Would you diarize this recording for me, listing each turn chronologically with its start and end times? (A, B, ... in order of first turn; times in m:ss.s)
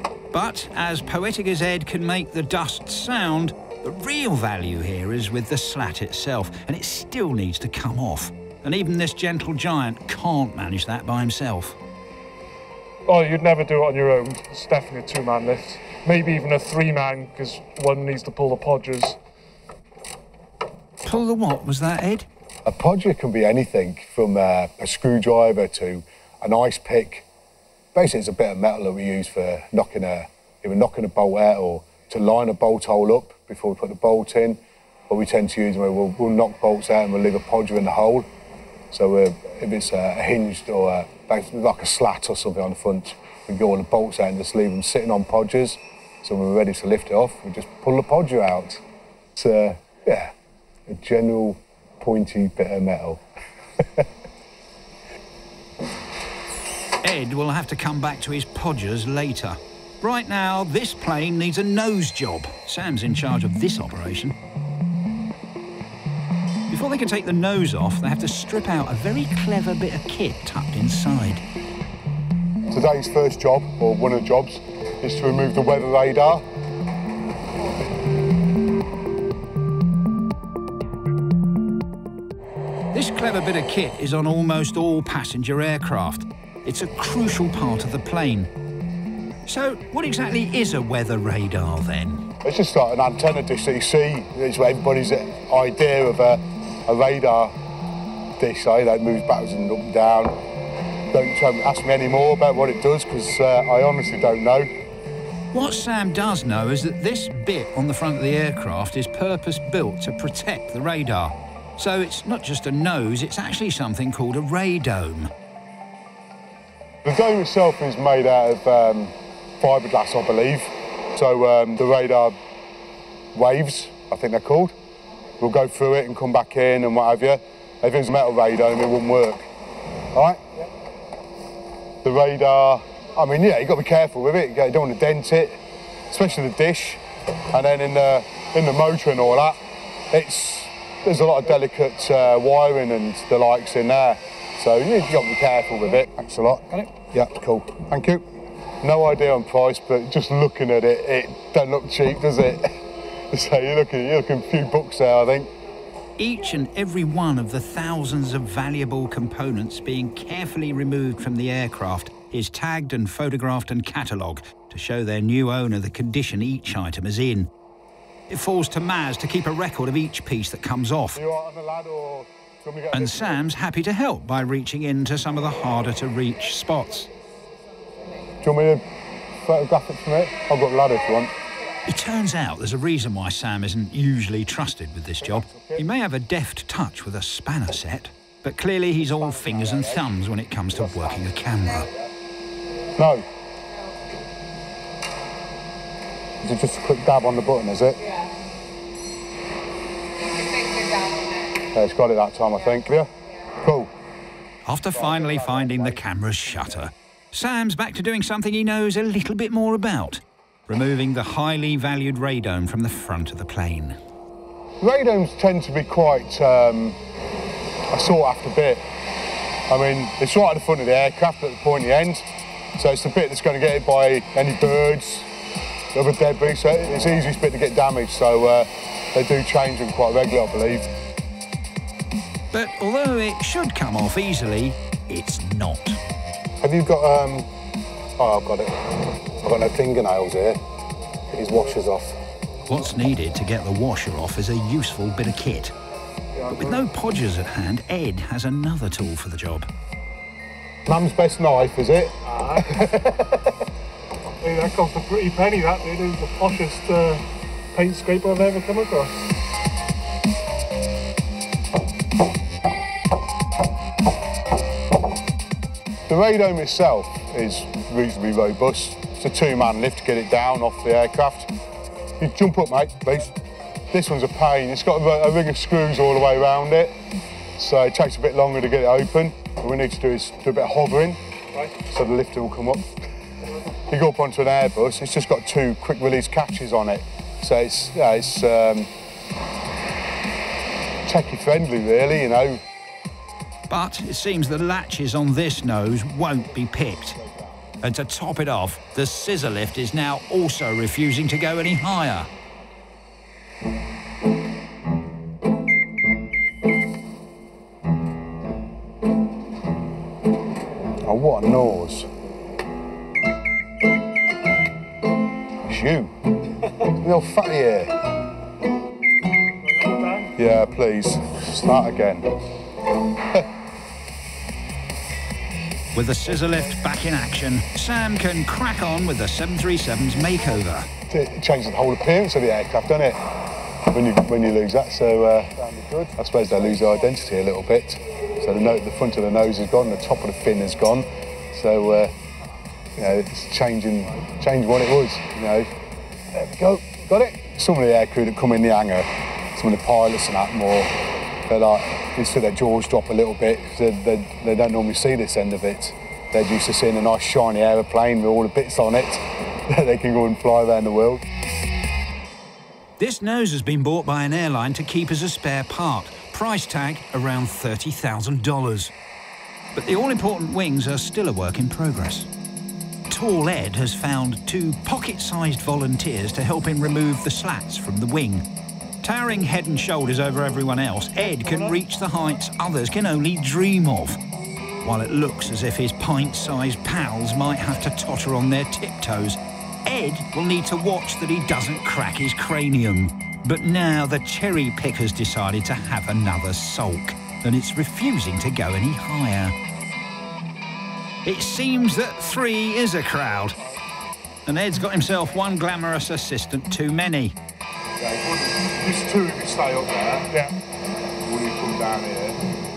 0:00.3-0:11.8 A
0:13.1-0:19.2 B
0:21.0-0:22.3 A
0:22.6-0:27.2 C
0:27.9-0:38.3 C
0:38.9-0:48.8 C
0:49.4-0:50.3 C
0:50.9-0:53.2 C
0:53.8-0:54.0 C
0:57.0-1:04.3 A
1:06.7-1:11.4 A
1:12.7-1:16.4 C
1:22.9-1:28.5 A
1:29.5-1:32.3 A
1:32.4-1:37.5 C
1:38.4-1:40.4 C
1:41.1-1:44.7 C
1:45.5-1:55.3 A
1:57.0-2:02.4 C
2:03.3-2:04.7 C
2:05.4-2:09.5 C
2:10.1-2:10.4 C
2:12.0-2:28.2 C
2:28.8-2:35.5 C
2:36.2-2:47.5 A
2:48.3-2:51.2 A
2:51.1-2:53.4 C
2:52.9-2:57.1 A
2:58.4-2:58.8 C
2:59.4-3:01.3 C
3:01.8-3:11.9 A
3:13.0-3:13.2 C
3:16.4-3:18.1 C
3:21.7-3:23.9 C
3:24.6-3:34.0 A
3:34.8-3:37.0 C
3:37.9-3:38.8 C
3:39.7-3:45.3 C
3:45.9-3:50.9 C
3:52.5-3:56.0 A
3:56.6-3:57.5 C
3:58.2-4:00.6 C
4:01.3-4:02.2 C
4:02.7-4:05.7 A
4:06.4-4:06.8 B
4:06.5-4:09.7 A
4:10.8-4:13.3 C
4:12.2-4:12.7 B
4:14.4-4:19.1 B
4:26.1-4:31.5 C
4:32.2-4:33.3 C
4:33.9-4:37.0 C
4:37.6-4:42.9 C
4:43.9-4:48.9 C
4:51.0-4:52.6 C
4:53.7-4:57.2 A
4:57.8-5:02.3 A
5:11.0-5:12.1 C
5:15.6-5:16.1 C
5:16.9-5:17.9 C
5:19.8-5:20.3 B
5:20.4-5:22.3 C
5:25.9-5:30.9 A
5:31.1-5:33.2 C
5:33.9-5:42.1 C
5:42.9-5:45.7 C
5:46.3-5:51.0 C
5:51.5-6:01.2 C
6:03.0-6:08.9 A
6:09.7-6:12.3 A
6:13.1-6:18.4 A
6:19.0-6:24.2 A
6:24.8-6:39.5 A
6:41.2-6:43.6 A
6:44.4-6:47.3 A
6:48.0-6:50.3 C
6:51.2-6:52.4 C